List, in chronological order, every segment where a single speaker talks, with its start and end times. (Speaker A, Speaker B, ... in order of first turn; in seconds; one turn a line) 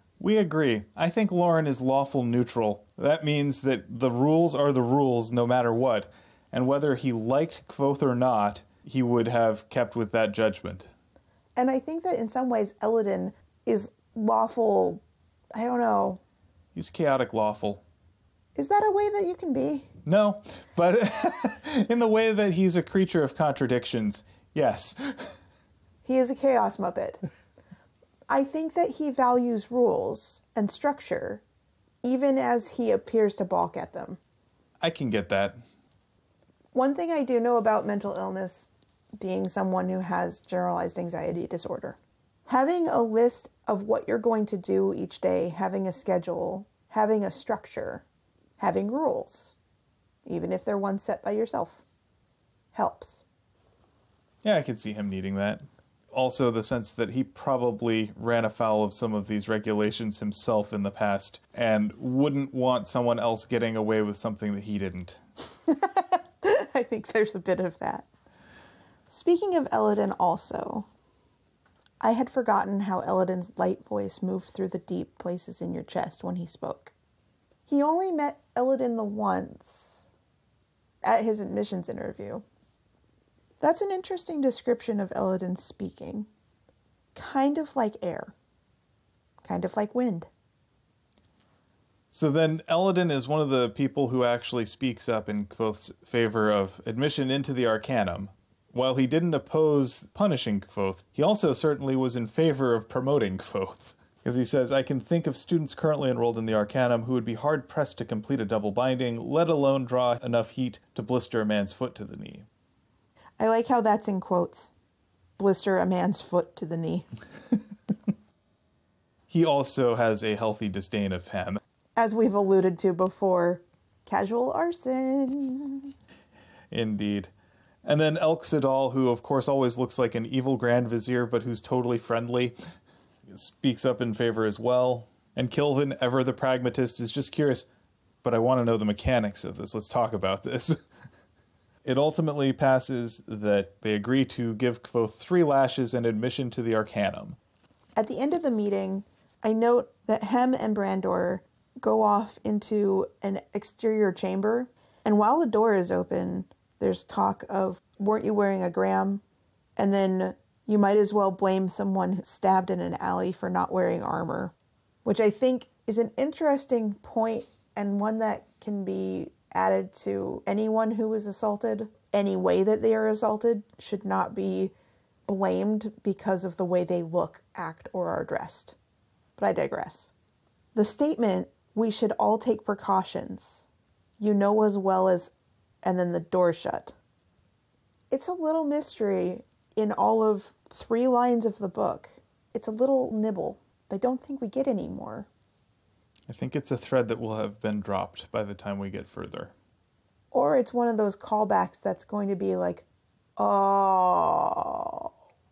Speaker A: 0.2-10.9
Speaker B: 11.6-15.0
Speaker B: 15.5-16.2
Speaker A: 16.7-17.8
Speaker B: 18.5-19.9
Speaker A: 20.1-25.3
Speaker B: 26.0-27.2
Speaker B: 28.3-31.4
Speaker B: 32.0-34.2
Speaker A: 34.8-35.6
Speaker B: 36.7-48.0
Speaker B: 48.6-49.5
Speaker B: 50.2-51.8
Speaker B: 52.7-53.2
Speaker A: 54.4-65.2
Speaker B: 65.7-68.1
Speaker B: 69.1-70.9
Speaker B: 72.0-76.9
Speaker B: 77.7-80.0
Speaker B: 81.0-82.4
Speaker B: 83.6-86.3
Speaker B: 87.1-88.3
Speaker B: 89.4-90.3
Speaker A: 92.1-112.5
Speaker B: 113.4-114.7
Speaker B: 115.4-117.1
Speaker A: 119.3-121.6
Speaker B: 122.0-125.9
Speaker A: 126.7-127.3
Speaker A: 127.8-132.7
Speaker A: 133.3-137.7
Speaker A: 138.2-140.8
Speaker A: 141.8-147.4
Speaker B: 148.0-159.2
Speaker B: 159.8-164.5
Speaker B: 165.0-174.7
Speaker B: 175.2-178.8
Speaker B: 179.4-180.1
Speaker B: 180.7-183.7
Speaker B: 184.2-185.3
Speaker B: 185.8-186.9
Speaker B: 188.1-195.3
Speaker A: 196.3-199.5
Speaker B: 200.3-202.8
Speaker B: 203.4-205.1